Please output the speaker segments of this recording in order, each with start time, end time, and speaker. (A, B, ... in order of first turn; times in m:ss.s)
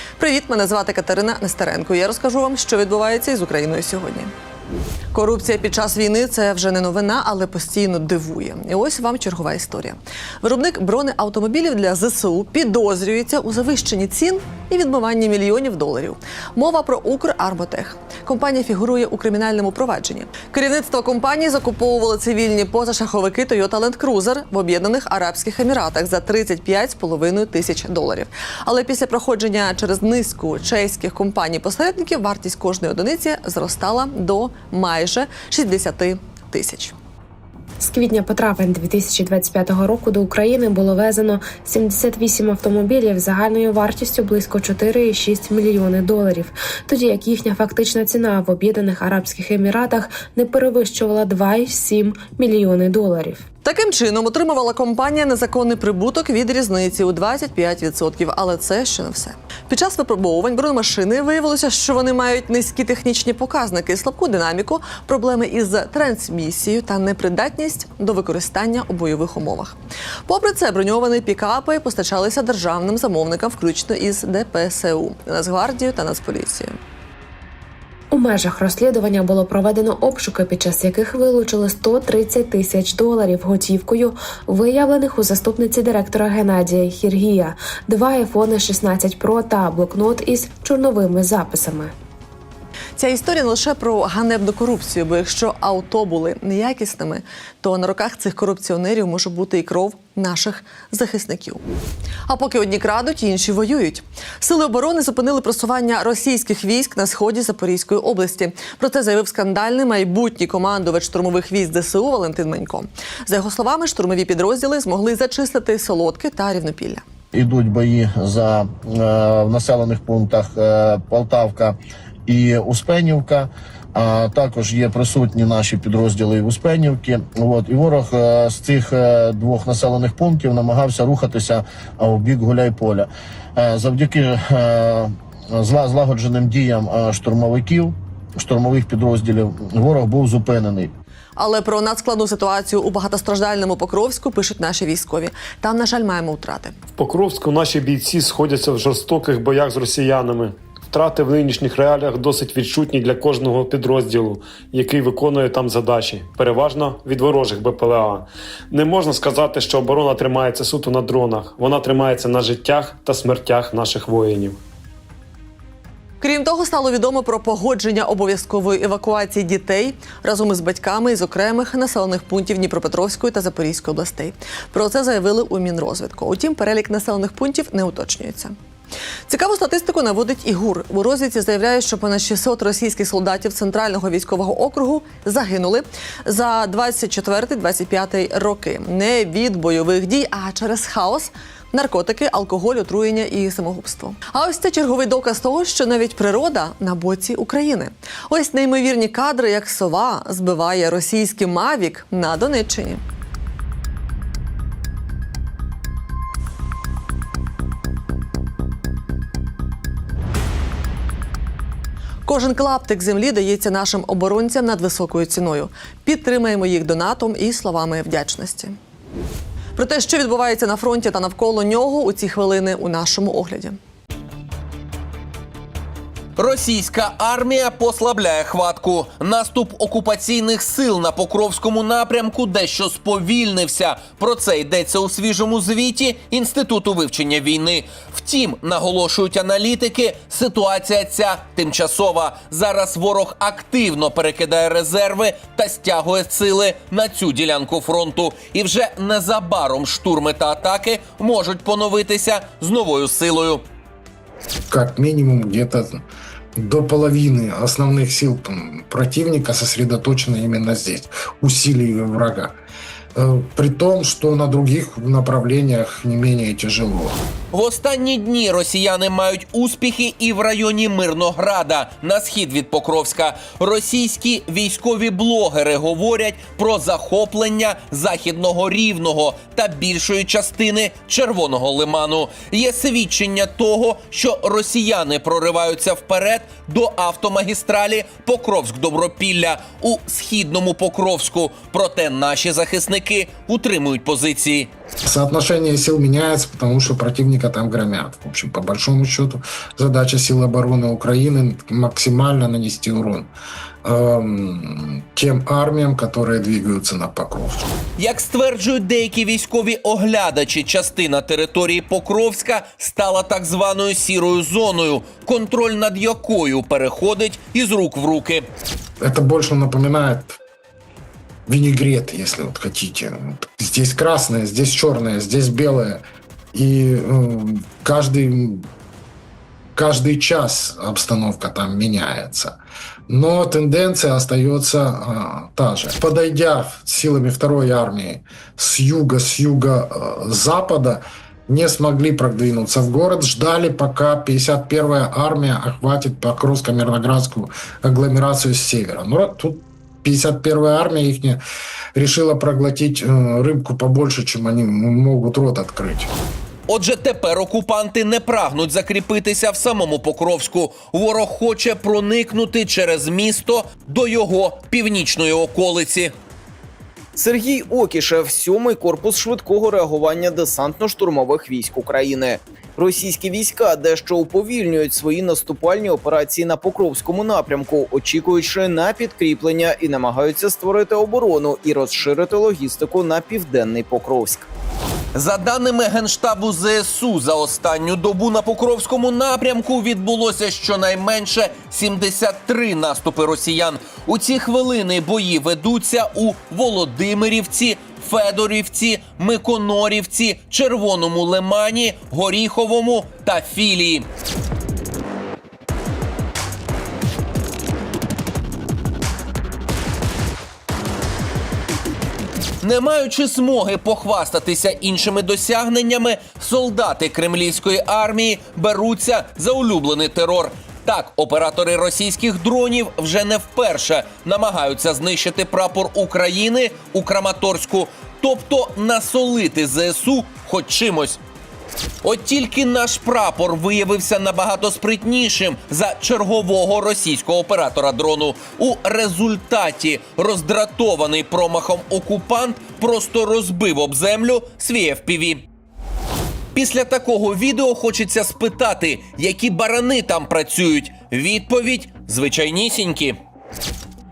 0:00.2-0:04.3 A
0:05.1-0:37.0 A
0:37.8-0:53.4 B
0:53.6-1:16.8 A
1:18.1-1:31.9 B
1:33.0-1:41.6 A
1:42.3-1:57.0 A
1:57.3-2:20.9 C
2:21.4-2:26.7 A
2:27.0-2:44.6 D
2:46.2-2:58.5 A
2:59.3-3:23.0 A
3:32.2-3:38.8 A
3:39.8-3:43.8 A
3:46.4-4:13.6 E
4:14.7-4:16.0 F
4:16.6-4:22.6 F
4:23.1-4:27.2 F
4:27.5-4:54.7 E
4:55.0-5:03.3 F
5:03.8-5:07.6 F
5:08.0-5:18.4 E
5:19.0-5:20.4 F
5:21.5-5:28.7 F
5:29.7-5:32.6 F
5:33.1-5:51.4 F
5:51.9-5:56.1 F
5:56.7-6:06.1 E
6:07.2-6:24.5 G
6:25.1-6:44.0 E
6:52.6-7:11.2 E
7:12.0-7:25.4 E
7:26.5-7:33.2 E